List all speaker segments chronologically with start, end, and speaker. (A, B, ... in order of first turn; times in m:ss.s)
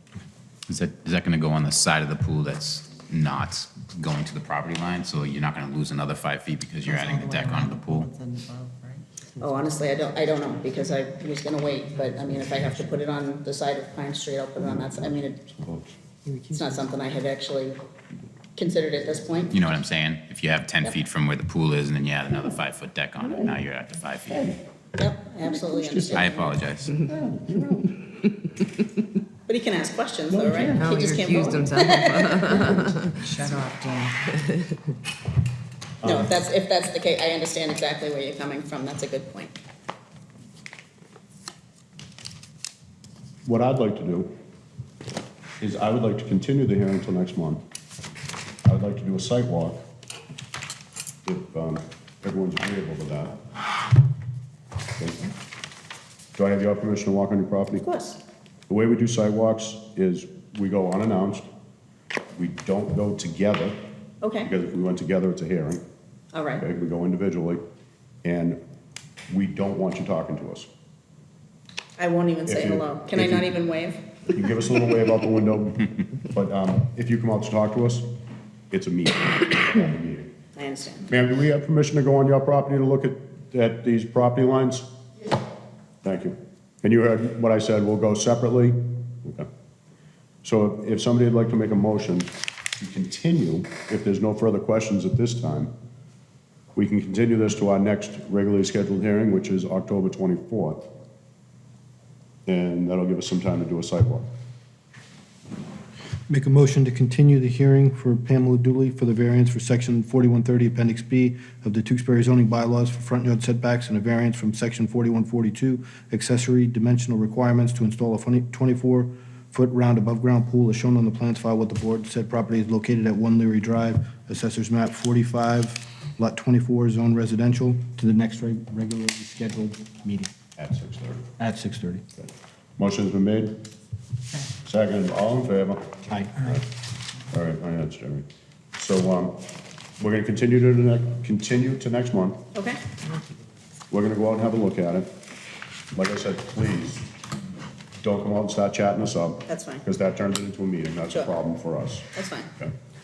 0:00.7-0:08.1 A
0:06.9-0:09.8 B
0:09.4-0:15.4 C
0:14.6-0:16.0 D
0:16.3-0:16.8 B
0:16.5-0:17.8 C
0:18.6-0:19.6 C
0:19.5-0:24.5 A
0:23.2-0:23.6 D
0:24.3-0:24.6 D
0:25.0-0:26.6 C
0:25.5-0:26.3 D
0:26.1-0:27.0 A
0:27.0-0:28.2 D
0:29.5-0:32.9 C
0:30.3-0:30.9 D
0:30.7-0:34.8 B
0:36.0-0:36.3 D
0:36.0-0:39.6 C
0:43.4-0:44.3 D
0:45.6-0:47.6 D
0:48.6-0:49.8 D
0:51.2-0:53.4 D
0:55.0-0:55.3 D
0:56.4-0:57.8 D
0:57.8-0:58.2 C
0:58.7-1:01.5 D
1:02.4-1:03.8 D
1:04.2-1:04.5 C
1:04.4-1:05.8 D
1:06.3-1:06.7 C
1:06.6-1:07.6 D
1:08.2-1:08.6 D
1:09.3-1:10.7 D
1:12.0-1:14.1 C
1:12.5-1:13.5 D
1:14.3-1:18.1 D
1:18.7-1:20.3 D
1:20.6-1:21.1 C
1:21.1-1:24.9 D
1:26.0-1:29.5 D
1:30.4-1:35.7 D
1:36.8-1:40.9 D
1:42.5-1:44.3 D
1:46.3-2:10.3 E
2:10.6-2:11.3 D
2:11.4-2:12.0 E
2:12.8-2:13.7 D
2:14.6-2:15.9 D
2:16.0-2:16.6 E
2:17.3-2:19.5 D
2:20.0-2:22.4 D
2:22.5-2:22.8 C
2:23.9-2:25.1 D
2:25.9-2:27.1 D
2:28.0-2:32.7 D
2:29.5-2:29.8 C
2:32.1-2:32.5 C